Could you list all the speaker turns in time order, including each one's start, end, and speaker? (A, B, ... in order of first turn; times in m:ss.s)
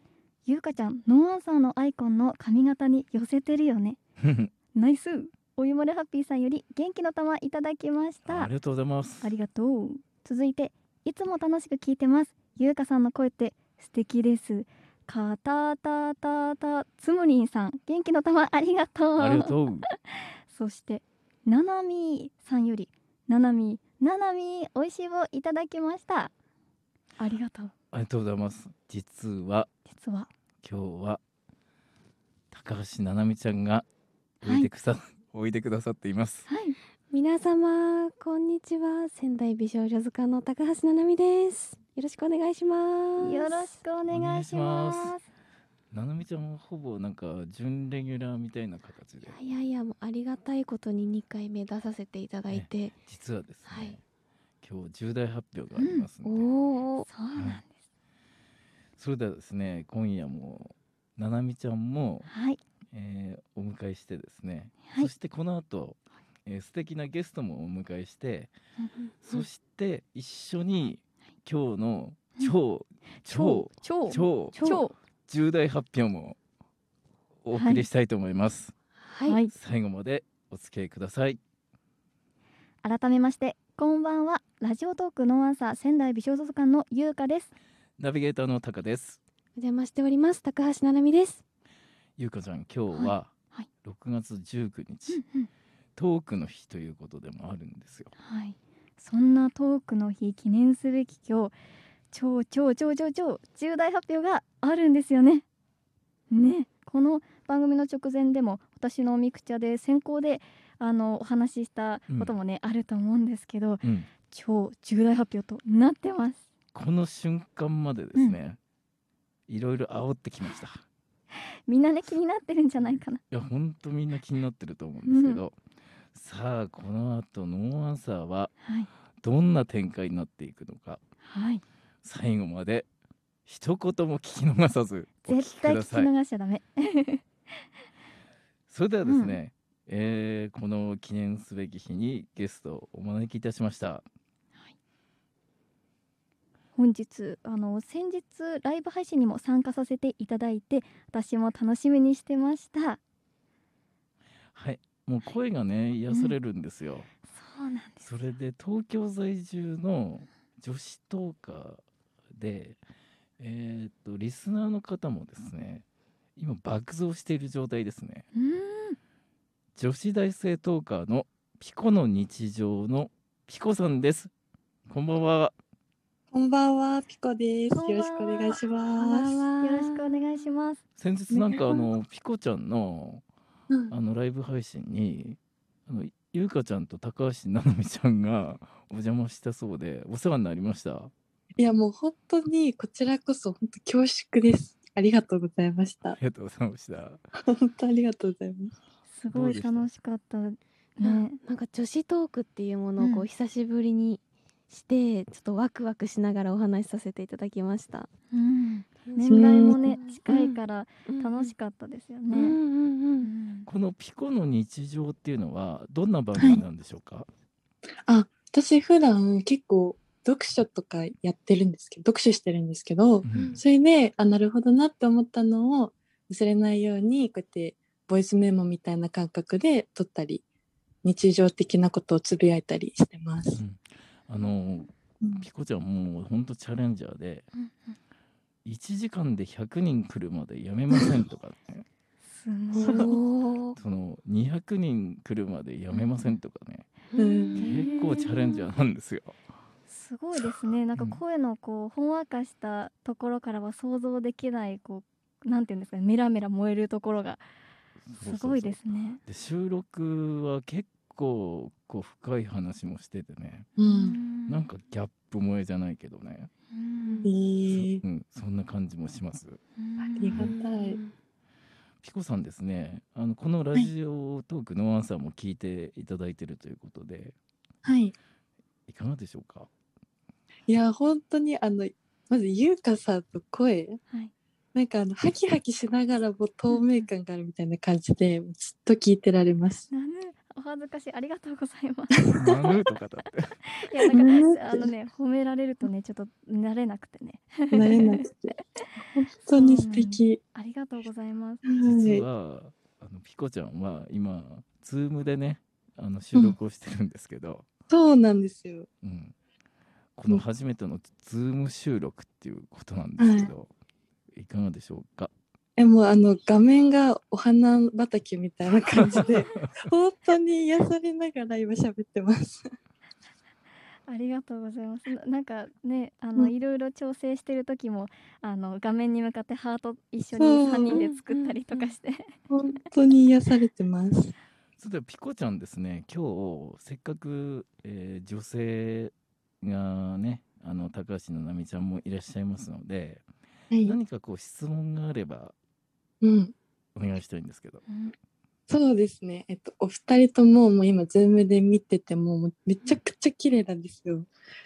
0:00.4-0:04.0 A
0:04.7-0:08.5 A
0:08.2-0:09.4 B
0:09.2-0:19.5 A
0:19.2-0:19.9 B
0:20.1-0:26.3 A
0:27.2-0:27.7 A
0:27.9-0:29.7 B
0:29.9-0:30.3 A
0:30.6-0:31.2 B
0:32.5-0:33.8 B
0:34.4-0:36.5 B
0:34.4-0:34.7 A
0:36.5-0:36.8 A
0:37.1-0:43.7 C
0:43.2-0:45.2 A
0:44.1-0:45.2 B
0:45.9-0:49.4 B
0:49.3-0:53.0 C
0:52.5-0:54.0 B
0:53.7-0:54.0 C
0:54.6-0:56.4 B
0:55.8-0:56.1 A
0:56.2-0:57.1 C
0:57.1-0:57.7 A
0:57.3-0:57.6 B
0:59.0-1:02.3 B
1:02.3-1:02.6 A
1:02.9-1:08.5 B
1:09.0-1:09.4 C
1:09.2-1:14.6 B
1:13.2-1:14.9 A
1:14.5-1:14.8 C
1:15.3-1:16.4 B
1:17.4-1:18.7 B
1:17.5-1:17.8 A
1:19.0-1:19.4 C
1:19.3-1:19.5 A
1:19.5-1:21.4 B
1:22.8-1:27.5 A
1:28.0-1:29.2 B
1:29.6-1:31.4 C
1:32.2-1:33.3 B
1:32.9-1:33.7 A
1:33.8-1:35.2 B
1:35.1-1:35.5 A
1:36.0-1:38.1 B
1:38.2-1:41.6 A
1:42.1-1:45.4 A
1:46.3-1:56.4 A
1:52.1-1:52.4 B
1:53.8-1:54.1 B
1:56.7-1:58.6 B
1:59.5-2:00.8 B
2:01.7-2:03.2 A
2:03.3-2:05.5 B
2:05.1-2:05.4 A
2:06.1-2:08.5 B
2:08.6-2:08.9 A
2:09.2-2:11.0 B
2:11.2-2:11.6 A
2:12.0-2:12.9 B
2:13.4-2:16.1 B
2:15.2-2:17.2 A
2:18.7-2:24.1 B
2:19.0-2:19.4 A
2:26.8-2:33.0 A
2:34.5-2:37.1 B
2:36.1-2:36.4 A
2:37.3-2:38.1 A
2:38.0-2:41.8 B
2:42.4-2:42.8 B
2:43.4-2:45.8 B
2:46.4-2:48.2 B
2:48.3-2:49.0 A
2:49.8-2:54.3 B
2:54.9-2:55.5 B
2:56.3-2:59.4 D
2:57.7-2:58.6 A
2:59.0-3:00.1 C
2:59.1-3:00.8 A
3:01.0-3:03.2 B
3:01.3-3:01.9 D
3:03.9-3:11.1 B
3:11.6-3:16.2 D
3:16.2-3:17.2 B
3:17.4-3:18.7 D
3:19.1-3:21.4 A
3:19.3-3:19.9 B
3:21.0-3:28.1 C
3:23.0-3:23.2 A
3:28.3-3:32.6 A
3:29.1-3:31.5 C
3:29.3-3:30.0 D
3:32.3-3:33.3 C
3:33.2-3:33.7 A
3:33.7-3:37.3 B
3:36.4-3:36.6 D
3:38.1-3:50.4 D
3:43.2-3:43.6 B
3:43.3-3:43.6 C
3:51.0-3:53.6 D
3:53.5-3:57.4 B
3:55.2-3:55.4 D
3:57.5-3:58.0 A
3:58.6-4:01.8 B
4:02.2-4:03.1 A
4:02.8-4:03.1 D
4:02.8-4:03.8 C
4:03.8-4:06.8 B
4:05.9-4:06.3 A
4:07.1-4:08.3 C
4:07.2-4:07.6 D
4:07.6-4:09.3 B
4:07.6-4:08.7 A
4:09.9-4:17.4 A
4:11.0-4:11.2 B
4:18.0-4:23.7 B
4:18.2-4:19.2 A
4:23.8-4:24.2 D
4:23.8-4:24.7 A
4:24.4-4:26.5 B
4:26.7-4:27.2 A
4:27.0-4:27.3 C
4:27.2-4:28.0 D
4:27.7-4:29.6 B
4:29.8-4:30.5 A
4:30.2-4:31.0 D
4:30.4-4:31.1 C
4:32.0-4:37.4 B
4:37.8-4:38.2 D
4:38.9-4:39.7 B
4:40.7-4:44.0 D
4:44.8-4:49.9 D
4:46.7-4:47.0 A
4:49.9-4:52.7 A
4:52.3-4:53.5 B
4:53.7-4:58.2 A
4:54.0-4:54.9 D
4:57.7-5:00.4 D
4:59.6-5:01.7 A
5:01.6-5:02.2 D
5:01.8-5:07.7 B
5:07.9-5:08.9 D
5:09.0-5:09.3 B
5:10.2-5:13.7 B
5:13.2-5:13.5 D
5:14.3-5:15.3 B
5:15.8-5:22.7 D
5:19.0-5:19.6 B
5:24.1-5:32.3 A
5:30.4-5:31.0 D
5:30.9-5:31.9 C
5:32.5-5:34.3 D
5:34.8-5:43.2 B
5:43.7-5:44.0 D
5:43.8-5:45.5 B
5:46.2-5:46.5 D
5:47.0-5:47.8 B
5:47.9-5:48.1 A
5:48.7-5:54.3 D